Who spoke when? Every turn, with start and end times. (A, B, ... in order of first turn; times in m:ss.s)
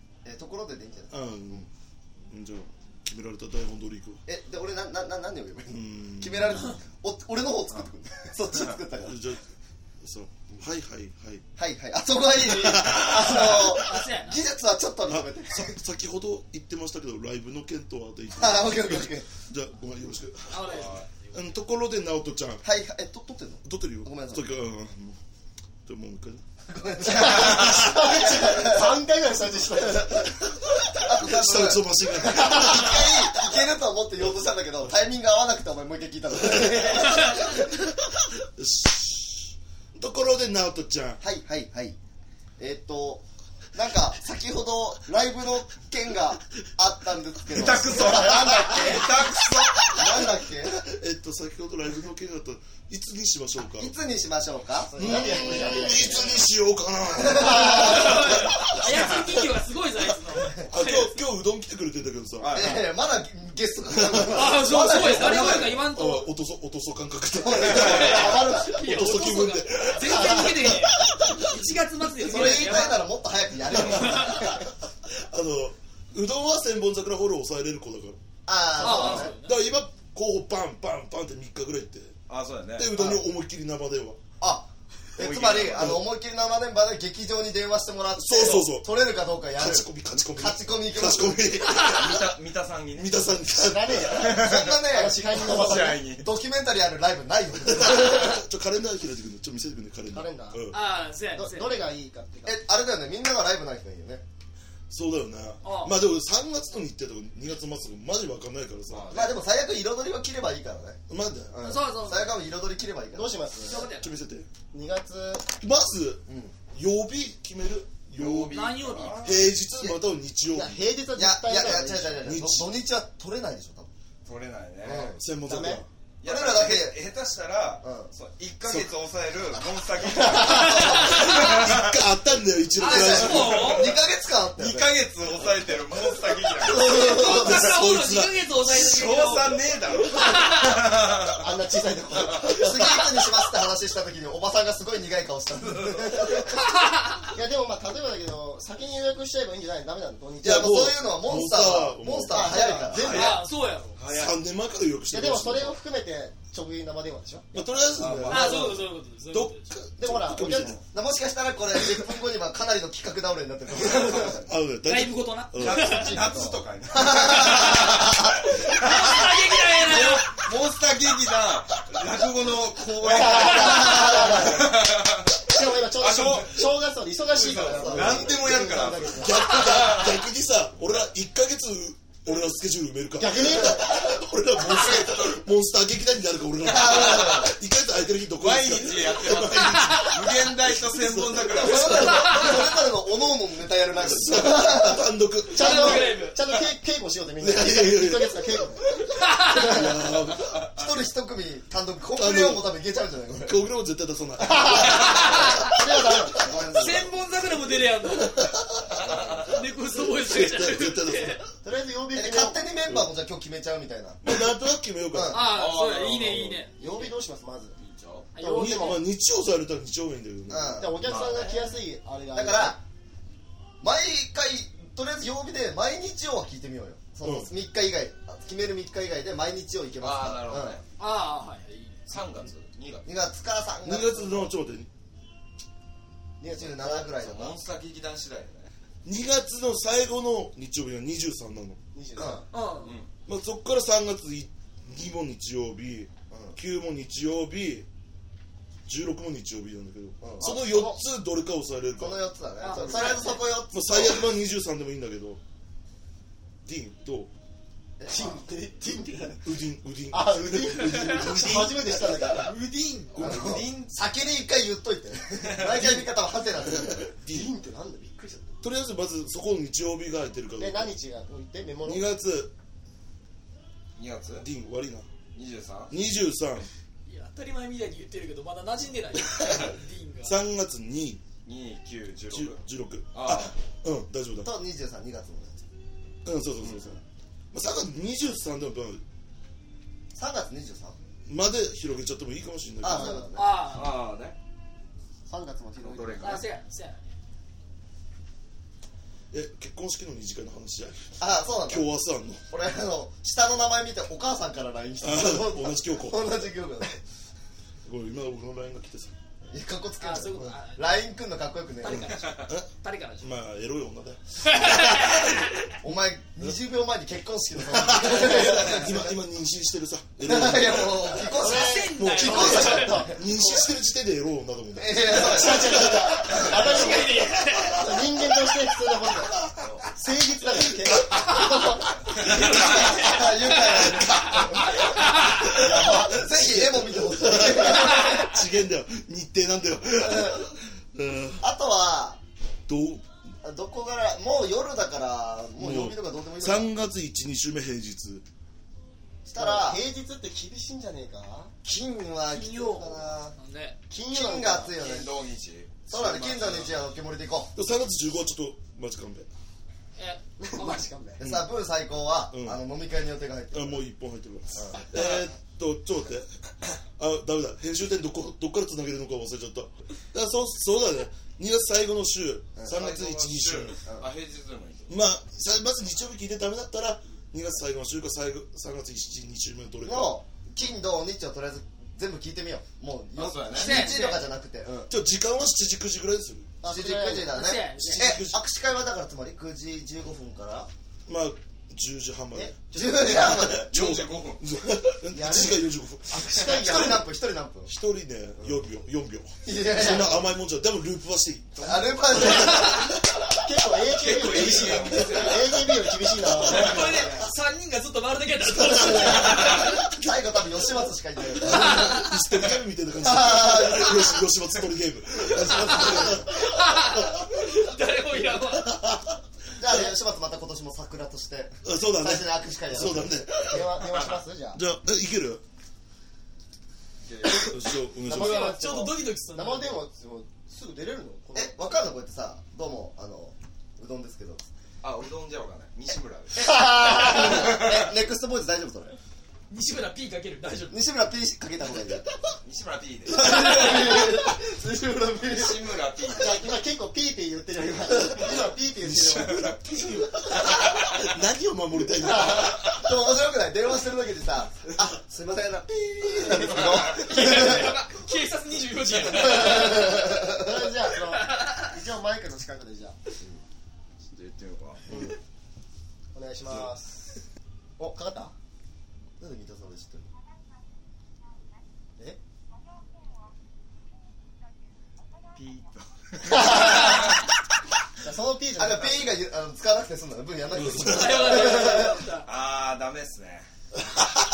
0:00.2-0:01.7 A
0:01.1-0:01.7 B
0:02.3-0:04.2 B
0:04.2-0:09.2 A
0:05.7-0:06.6 B
0:09.0-0:09.4 B
0:10.0-0:11.4 B
0:11.6-0:15.8 A
0:12.4-0:13.8 B
0:13.7-0:14.4 C
0:15.1-0:22.6 B
0:18.4-0:19.3 A
0:20.5-0:21.5 C
0:20.6-0:21.0 D
0:22.6-0:24.4 A
0:23.6-0:25.2 B
0:25.8-0:26.4 B
0:26.7-0:29.0 A
0:27.1-0:30.3 E
0:27.4-0:28.1 B
0:30.2-0:33.4 B
0:30.9-0:37.7 A
0:32.3-0:32.6 E
0:36.4-0:41.2 B
0:41.2-0:42.0 A
0:42.6-0:43.2 A
0:43.7-0:49.1 A
0:47.5-0:50.0 D
0:47.5-0:48.5 B
0:49.9-0:50.8 A
0:50.7-0:53.9 B
0:53.7-0:56.4 A
0:54.9-0:56.4 E
0:55.0-0:59.4 B
0:57.2-0:58.4 A
0:57.4-1:01.2 C
1:00.6-1:02.6 B
1:02.4-1:02.8 D
1:02.5-1:05.6 A
1:04.0-1:11.6 B
1:04.3-1:06.3 C
1:07.4-1:08.8 A
1:07.7-1:13.1 C
1:12.2-1:14.6 A
1:12.3-1:12.5 B
1:13.7-1:18.2 B
1:13.8-1:14.5 C
1:18.5-1:19.3 A
1:18.8-1:19.6 C
1:18.8-1:22.2 B
1:22.3-1:23.0 D
1:22.8-1:24.2 B
1:23.0-1:23.2 A
1:24.4-1:31.6 A
1:25.2-1:26.0 D
1:25.8-1:26.0 B
1:28.2-1:29.0 B
1:29.5-1:32.3 B
1:31.8-1:33.2 D
1:33.0-1:34.4 B
1:33.5-1:36.1 E
1:34.1-1:36.2 D
1:34.3-1:38.4 A
1:37.6-1:40.8 B
1:40.1-1:40.7 E
1:40.7-1:41.9 C
1:41.3-1:42.6 E
1:42.4-1:44.2 A
1:44.9-1:49.2 B
1:45.6-1:46.0 C
1:48.9-1:49.4 D
1:49.1-1:51.0 A
1:51.1-1:51.6 B
1:51.5-1:53.4 A
1:51.6-1:52.3 C
1:53.1-1:53.9 E
1:53.6-1:54.1 C
1:53.9-1:54.5 B
1:54.7-1:55.5 E
1:55.6-2:00.8 B
1:56.3-1:56.5 A
1:58.1-1:59.4 D
1:58.5-1:59.3 C
2:00.5-2:02.2 E
2:01.2-2:03.9 A
2:02.2-2:02.7 B
2:04.2-2:05.1 D
2:04.8-2:05.2 A
2:05.2-2:05.9 B
2:05.4-2:05.8 E
2:06.2-2:11.9 D
2:06.2-2:07.0 A
2:07.8-2:08.1 A
2:08.6-2:08.9 B
2:10.3-2:11.1 A
2:10.5-2:11.6 C
2:10.9-2:13.8 B
2:12.8-2:13.9 C
2:12.8-2:15.0 A
2:13.5-2:13.9 D
2:14.6-2:17.0 D
2:16.6-2:17.7 A
2:16.7-2:20.8 C
2:17.0-2:18.4 B
2:18.6-2:21.5 D
2:21.4-2:23.0 E
2:22.1-2:22.4 D
2:22.3-2:26.5 A
2:26.4-2:27.3 C
2:27.3-2:30.7 E
2:30.4-2:32.7 B
2:30.4-2:33.4 A
2:32.3-2:33.3 E
2:32.7-2:34.0 C
2:32.9-2:33.4 D
2:34.0-2:34.4 D
2:34.1-2:35.8 B
2:35.1-2:37.7 E
2:37.5-2:40.8 B
2:37.9-2:38.8 D
2:38.3-2:39.7 C
2:40.0-2:40.8 E
2:40.8-2:44.5 A
2:44.5-2:46.1 B
2:44.8-2:46.3 C
2:45.6-2:56.7 D
2:46.2-2:48.4 A
2:47.3-2:48.0 C
2:48.6-2:50.3 C
2:53.0-2:54.7 A
2:53.4-2:53.9 E
2:55.4-2:59.6 E
2:57.4-3:00.1 D
2:57.4-2:58.3 A
2:57.9-2:58.3 B
2:59.2-3:12.3 B
3:03.2-3:04.0 E
3:04.7-3:05.4 D
3:06.6-3:07.5 A
3:08.4-3:12.5 D
3:09.7-3:10.1 C
3:11.4-3:15.0 A
3:14.0-3:16.1 B
3:15.5-3:18.9 E
3:15.6-3:16.4 C
3:17.4-3:20.6 B
3:19.2-3:19.8 C
3:20.7-3:23.6 A
3:22.1-3:22.6 B
3:23.4-3:25.5 B
3:24.4-3:26.5 E
3:24.7-3:25.7 C
3:26.4-3:27.1 A
3:26.8-3:28.5 C
3:28.2-3:31.5 B
3:28.9-3:29.5 D
3:29.4-3:31.4 C
3:31.6-3:32.6 E
3:32.1-3:34.4 A
3:34.2-3:35.4 B
3:35.1-3:35.6 A
3:35.3-3:36.8 C
3:35.4-3:37.0 D
3:36.8-3:37.7 E
3:37.8-3:38.3 D
3:38.4-3:39.0 C
3:38.4-3:39.0 E
3:38.5-3:41.0 B
3:40.5-3:41.3 A
3:40.8-3:42.8 E
3:41.0-3:41.6 D
3:42.3-3:42.8 A
3:43.8-3:50.8 A
3:47.2-3:47.5 B
3:50.0-3:50.8 D
3:51.0-3:52.0 C
3:52.1-3:53.1 D
3:53.0-3:54.5 A
3:53.8-3:54.9 B
3:56.4-3:57.6 A
3:56.7-3:58.7 D
3:59.0-4:01.8 B
4:01.9-4:02.4 E
4:02.2-4:02.4 A
4:02.5-4:03.0 C
4:02.8-4:03.1 D
4:03.3-4:07.9 B
4:06.3-4:06.6 A
4:08.8-4:12.2 B
4:10.2-4:10.6 A
4:10.4-4:11.0 E
4:12.0-4:14.3 A
4:12.6-4:13.4 C
4:13.7-4:15.4 B
4:16.6-4:17.3 B
4:18.0-4:18.4 A
4:18.1-4:19.4 E
4:19.4-4:22.4 B
4:20.1-4:23.3 E
4:20.8-4:21.5 C
4:22.4-4:23.1 C
4:23.2-4:24.0 D
4:23.2-4:27.1 A
4:25.7-4:26.1 B
4:26.6-4:27.5 B
4:27.2-4:28.5 E
4:28.6-4:30.9 B
4:30.6-4:32.0 E
4:31.8-4:32.5 B
4:34.0-4:34.5 D
4:34.4-4:35.1 B
4:35.3-4:35.9 D
4:35.9-4:36.7 B
4:37.0-4:40.4 C
4:39.4-4:39.6 B
4:40.2-4:41.2 B
4:41.4-4:42.6 D
4:42.3-4:44.5 B
4:43.1-4:43.6 D
4:44.4-4:45.6 A
4:46.2-4:47.0 B
4:46.7-4:47.0 A
4:47.5-4:49.0 B
4:50.1-4:51.0 A
4:51.3-4:53.3 B
4:52.8-4:53.7 A
4:53.3-4:54.0 C
4:53.6-4:54.4 D
4:55.3-4:56.4 A
4:55.8-4:56.4 D
4:56.2-4:57.1 C
4:59.3-5:01.1 B
5:01.2-5:01.9 A
5:01.6-5:02.4 B
5:02.5-5:07.0 A
5:05.0-5:06.3 B
5:07.8-5:09.1 B
5:09.5-5:12.1 A
5:10.0-5:11.0 C
5:11.8-5:13.3 C
5:12.4-5:12.7 B
5:13.2-5:15.6 B
5:14.4-5:15.7 C
5:15.8-5:19.1 A
5:17.7-5:21.2 B
5:20.2-5:23.2 A
5:21.3-5:23.3 E
5:21.4-5:23.1 C
5:21.9-5:26.5 B
5:24.7-5:26.5 A
5:25.2-5:32.0 E
5:26.3-5:27.9 C
5:30.9-5:31.3 B
5:31.2-5:31.5 C
5:32.1-5:35.6 C
5:32.2-5:38.3 A
5:32.3-5:32.6 B
5:33.6-5:34.6 B
5:35.3-5:41.4 B
5:38.0-5:38.3 C
5:40.0-5:40.4 A
5:41.4-5:42.2 A
5:42.7-5:43.0 B
5:43.4-5:46.7 A
5:45.6-5:48.2 B
5:49.2-5:49.8 A
5:49.4-5:51.5 E
5:51.6-5:53.3 A
5:52.3-5:53.8 C
5:53.9-5:54.7 E
5:54.1-5:55.1 A
5:54.7-5:56.8 D
5:55.9-5:57.5 A
5:57.6-5:59.3 B
6:00.0-6:00.8 C
6:00.4-6:01.2 E
6:01.2-6:03.8 A
6:01.2-6:01.5 B
6:02.3-6:02.6 B
6:03.5-6:06.3 B
6:04.5-6:04.9 A
6:07.0-6:13.8 B
6:12.6-6:12.8 A
6:12.7-6:15.0 D
6:14.9-6:20.2 B
6:19.8-6:24.9 A
6:23.2-6:24.1 D
6:23.5-6:24.3 C
6:24.9-6:26.5 B
6:26.6-6:27.5 E
6:26.7-6:30.7 A
6:27.3-6:28.1 C
6:27.8-6:28.4 B
6:31.1-6:37.0 B
6:32.3-6:33.1 E
6:32.7-6:33.7 A
6:33.3-6:34.4 D
6:35.1-6:37.0 E
6:36.3-6:37.7 A
6:37.6-6:42.8 B
6:39.4-6:40.3 A
6:41.6-6:42.9 A
6:43.4-6:47.0 E
6:43.9-6:45.7 D
6:46.2-6:49.7 C
6:46.4-6:46.6 B
6:46.5-6:47.3 A
6:48.5-6:49.7 B
6:49.3-6:52.1 A
6:51.4-6:57.5 B
6:51.6-6:52.0 C
6:53.0-6:54.2 A
6:55.5-6:58.8 C
6:58.3-6:59.1 B
6:59.6-7:03.6 A
7:01.6-7:03.9 B
7:03.4-7:04.6 E
7:04.5-7:05.4 B
7:07.0-7:07.6 D
7:07.2-7:07.5 E
7:07.4-7:08.6 B
7:08.0-7:11.9 E
7:08.1-7:09.8 C
7:11.3-7:14.5 A
7:14.8-7:16.5 D
7:16.4-7:19.0 A
7:16.7-7:17.4 E
7:17.2-7:17.8 D
7:19.5-7:20.8 C
7:20.7-7:22.1 A
7:22.4-7:23.8 D
7:23.1-7:25.8 A
7:25.2-7:26.5 D
7:26.1-7:29.5 E
7:28.8-7:32.8 B
7:32.1-7:37.8 A
7:36.9-7:40.1 C
7:39.1-7:40.6 A
7:40.0-7:43.0 E
7:41.0-7:41.7 C
7:44.1-7:44.8 D
7:46.1-7:47.2 E
7:47.8-7:48.3 E
7:49.2-7:50.1 A
7:55.3-7:57.0 D
7:56.3-7:57.0 E
7:58.0-7:59.1 E
7:58.6-8:02.0 A
8:00.5-8:01.2 B
8:00.8-8:02.3 C
8:02.2-8:03.5 D